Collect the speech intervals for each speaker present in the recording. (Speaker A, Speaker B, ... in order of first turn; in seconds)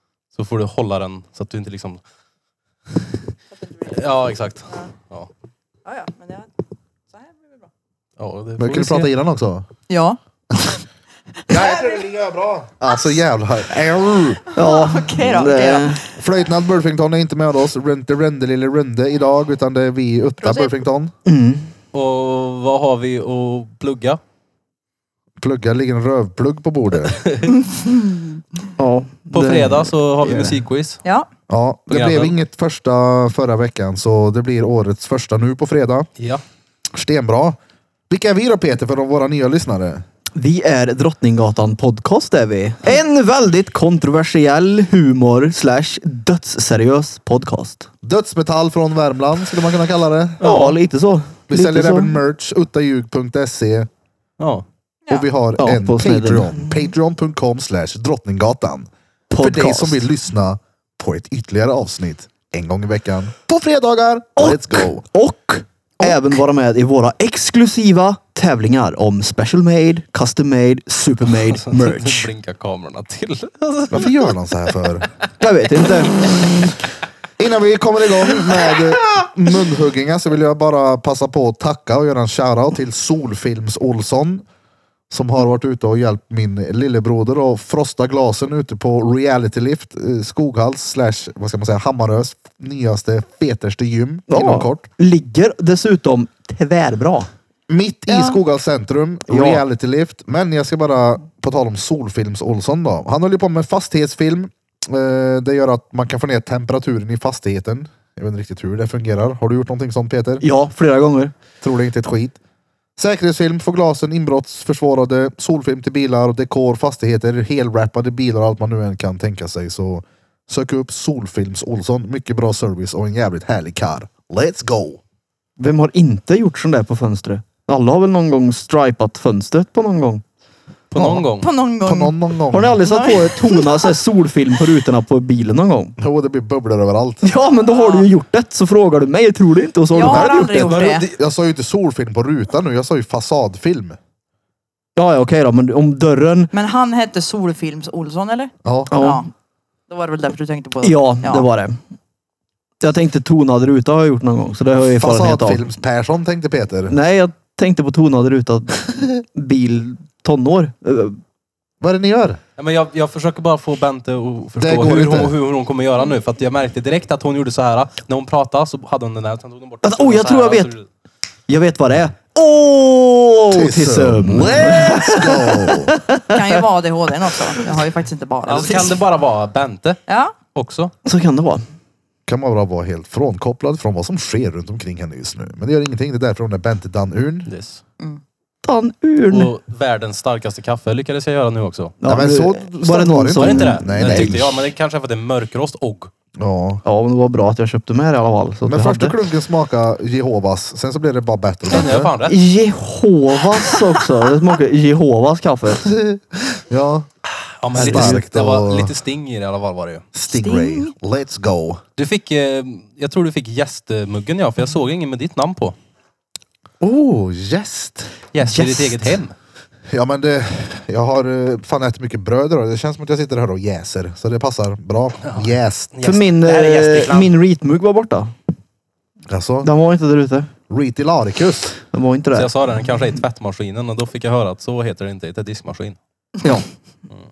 Speaker A: 0.3-2.0, 3.9-5.3, 8.2-9.1, 21.9-24.2, 27.1-27.5, 29.3-31.0, 31.9-32.3, 50.4-50.8, 54.4-54.6, 71.6-74.3, 130.9-131.5, 140.6-141.2, 162.6-170.9, 178.5-180.0, 180.6-180.9, 187.5-187.8, 189.3-192.0, 193.4-196.1, 201.7-202.4, 207.6-210.1, 212.0-215.8, 218.3-219.3, 225.2-227.4, 232.3-236.0
Speaker B: 5.8-6.5, 7.1-7.7, 9.9-10.2, 11.5-12.0, 14.5-16.1, 20.4-20.7, 27.6-28.4, 98.1-98.4, 131.4-132.1, 132.8-133.9, 137.7-138.1, 139.9-141.1, 146.5-149.3, 149.9-151.5, 176.3-179.0, 180.1-180.3, 210.3-210.9
Speaker C: 8.6-9.7, 10.5-10.8, 11.5-14.4, 16.1-21.1, 25.4-27.2, 31.5-36.1, 36.9-37.6, 38.1-40.0, 48.0-50.5, 51.5-53.9, 55.1-58.9, 59.4-65.0, 73.9-75.1, 77.4-84.4, 85.1-94.9, 97.7-110.4, 111.6-112.4, 113.0-125.0, 131.9-132.8, 136.0-137.3, 140.0-140.5, 141.1-144.0, 148.6-148.9, 154.9-157.0, 161.8-162.4, 164.6-165.4, 173.5-176.0, 182.3-187.5, 192.1-194.6, 196.4-196.8, 198.6-202.1, 205.8-207.1, 207.7-208.9, 210.2-211.8, 216.8-218.2, 219.9-225.9, 229.3-229.7, 230.7-231.8
Speaker D: 14.6-16.0, 21.3-21.7, 28.8-30.6, 40.3-47.9, 50.4-52.2, 55.6-56.9, 59.3-60.1, 64.4-72.3, 75.4-76.8, 94.3-97.3, 99.3-99.6, 110.4-111.3, 125.6-130.2, 131.0-131.2, 132.5-135.9, 137.2-140.8, 145.0-146.5, 148.9-149.2, 150.8-151.8, 152.8-155.6, 156.9-161.2, 169.8-170.7, 171.5-176.5, 181.1-181.7, 188.6-189.5, 192.0-194.4, 196.8-199.2, 202.2-205.9, 207.7-208.2, 218.4-219.1, 226.0-228.3, 229.6-230.5, 231.9-232.5